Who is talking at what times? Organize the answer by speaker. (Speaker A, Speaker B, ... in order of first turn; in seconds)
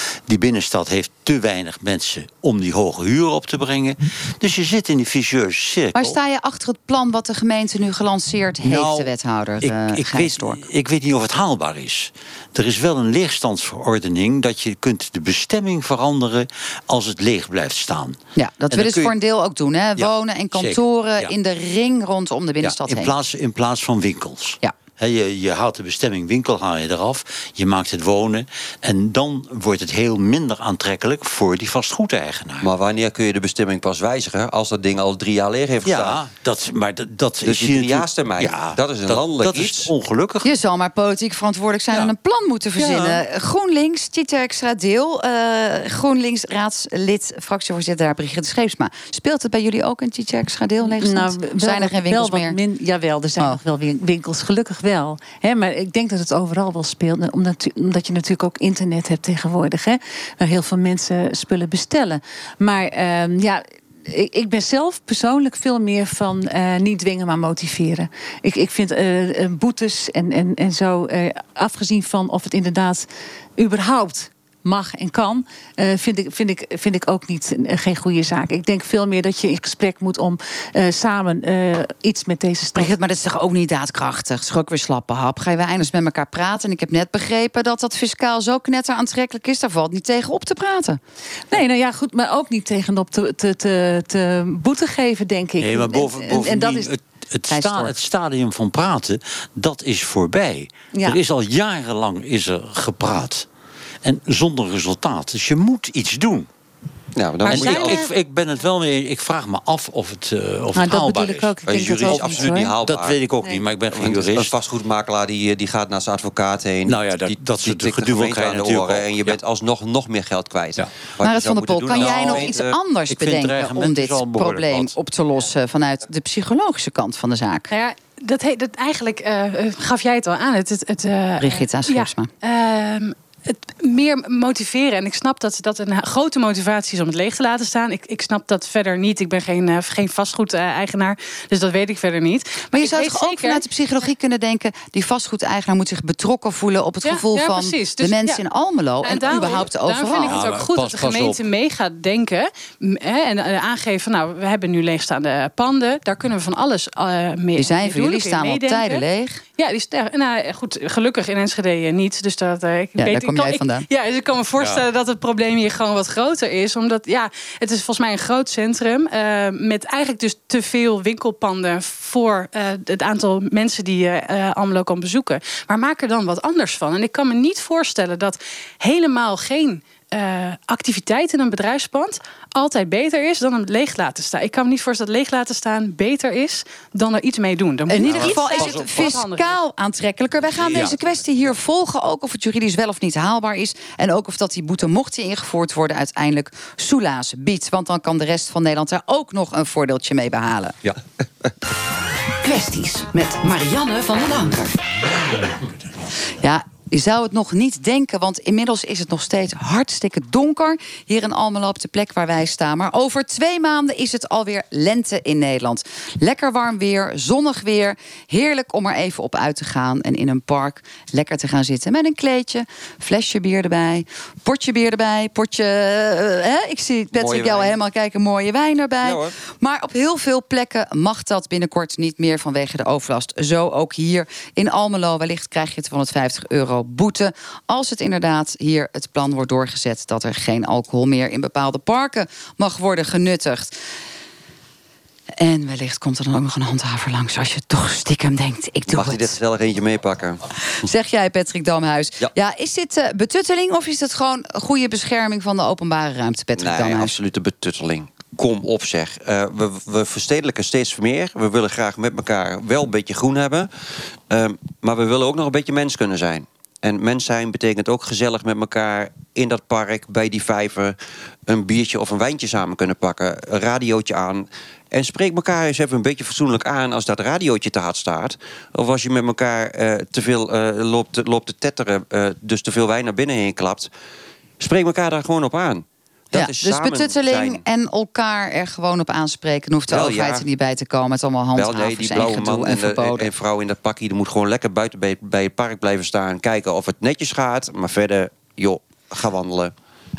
Speaker A: 0.3-6.2, 8.6-18.2, 18.7-19.1, 20.0-21.3, 22.6-32.7, 35.8-40.5, 42.8-43.2, 95.6-103.5, 104.0-106.5, 107.4-114.5, 116.8-119.4, 121.9-122.5, 123.1-124.9, 150.2-151.4, 164.6-164.8, 188.0-189.2, 190.6-191.0
Speaker B: 5.9-10.6, 18.4-23.1, 40.4-52.6, 82.7-91.0, 97.5-97.9, 121.2-127.7, 131.4-132.3, 142.7-150.4, 157.5-159.4, 163.0-163.9, 187.9-200.8, 206.4-243.7, 245.4-249.4, 250.8-257.1, 286.3-293.3
Speaker C: 32.6-36.2, 37.4-39.9, 107.2-108.0, 111.7-113.2, 113.9-122.7, 227.1-227.7, 229.0-229.3, 248.9-250.4, 256.6-263.7, 264.3-270.9, 271.5-283.9, 284.6-287.6, 289.9-290.4, 291.5-299.7
Speaker D: 50.9-82.9, 91.5-96.9, 100.9-101.2, 107.5-108.1, 110.7-112.7
Speaker E: 127.7-143.6, 147.0-148.4, 149.0-159.0, 159.6-189.6
Speaker F: 202.4-204.7